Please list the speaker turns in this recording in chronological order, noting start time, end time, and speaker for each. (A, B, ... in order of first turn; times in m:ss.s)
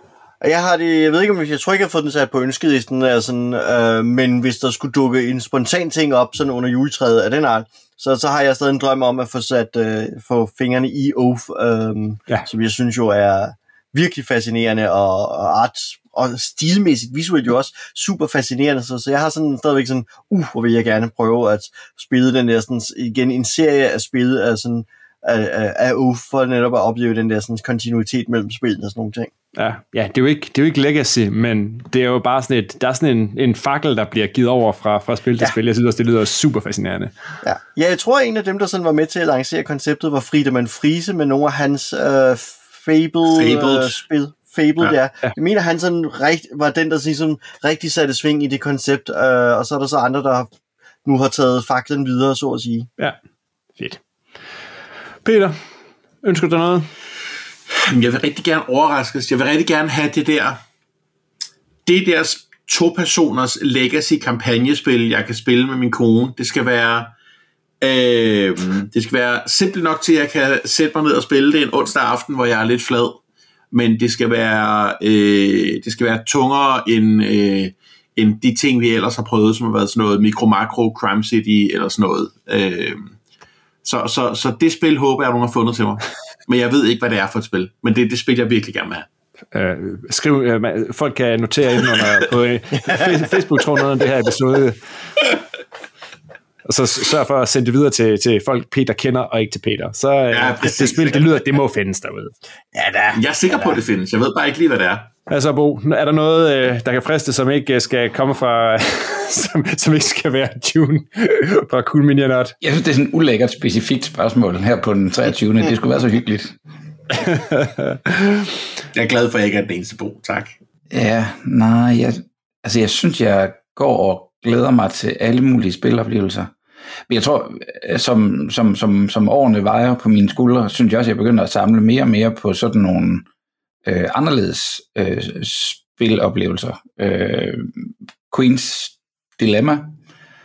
0:00.4-0:29.3 A
0:29.6-0:37.1 B
0:37.4-0:50.5 A
0:43.2-0:44.0 C
0:51.0-0:52.9 A
0:55.2-0:55.6 B
0:56.2-0:56.9 B
0:57.7-1:00.6 C
1:01.8-1:07.1 C
1:07.8-1:13.2 C
1:13.7-1:23.2 C
1:23.8-1:29.1 C
1:29.5-1:34.8 B
1:36.6-1:42.3 B
1:40.3-1:41.4 C
1:42.7-1:43.8 A
1:43.1-1:45.1 C
1:45.3-1:52.6 B
1:52.6-1:56.5 D
1:57.1-1:58.5 B
1:58.9-2:00.5 C
2:00.9-2:06.5 D
2:07.1-2:13.2 D
2:13.8-2:19.9 D